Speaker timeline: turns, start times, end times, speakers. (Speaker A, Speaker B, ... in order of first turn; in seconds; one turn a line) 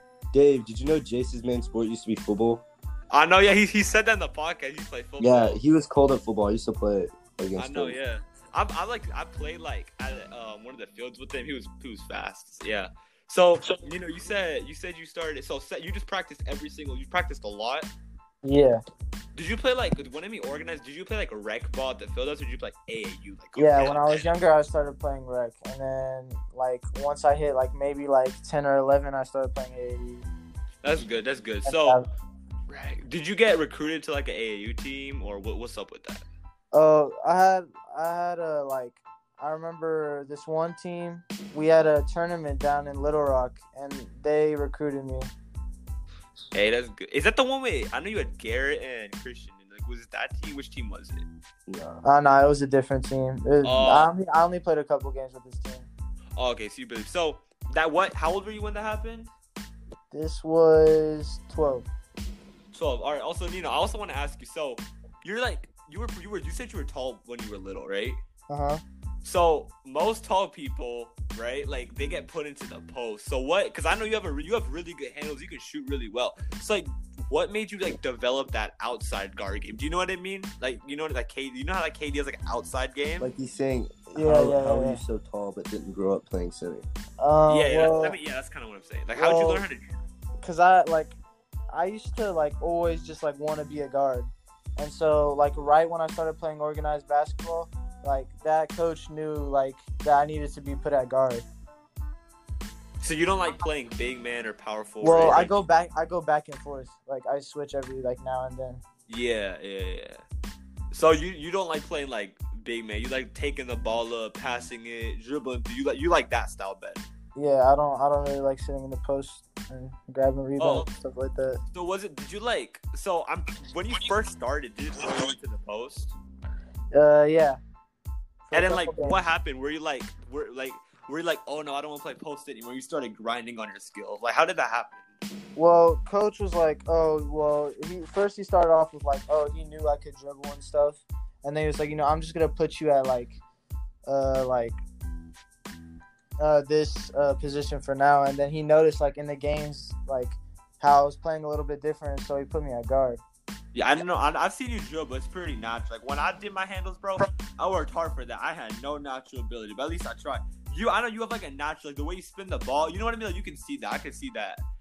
Speaker A: 0.3-2.6
Speaker B: 3.1-5.6
Speaker A: 5.2-8.0
Speaker B: 7.6-17.9
Speaker C: 18.4-18.8
Speaker B: 19.4-24.3
Speaker C: 23.6-30.3
Speaker B: 30.8-32.0
Speaker C: 31.7-32.1
Speaker B: 32.7-36.2
Speaker C: 36.7-45.3
Speaker B: 46.5-51.2
Speaker A: 51.7-52.0
Speaker C: 52.0-55.9
Speaker B: 53.6-54.1
Speaker B: 56.4-59.3
Speaker C: 60.1-61.9
Speaker B: 62.7-68.2
Speaker C: 68.5-68.8
Speaker B: 69.2-83.3
Speaker A: 83.2-86.9
Speaker C: 84.2-85.0
Speaker C: 87.2-88.2
Speaker B: 87.5-89.8
Speaker C: 89.2-89.7
Speaker C: 90.4-91.2
Speaker C: 91.7-101.5
Speaker B: 103.0-105.6
Speaker C: 105.0-108.8
Speaker B: 109.1-110.2
Speaker B: 110.9-117.0
Speaker C: 117.3-121.6
Speaker B: 120.6-120.9
Speaker B: 121.7-126.2
Speaker C: 126.9-127.6
Speaker C: 128.5-129.2
Speaker B: 128.5-135.0
Speaker C: 135.6-143.4
Speaker C: 144.1-144.8
Speaker C: 146.4-153.2
Speaker B: 153.7-164.6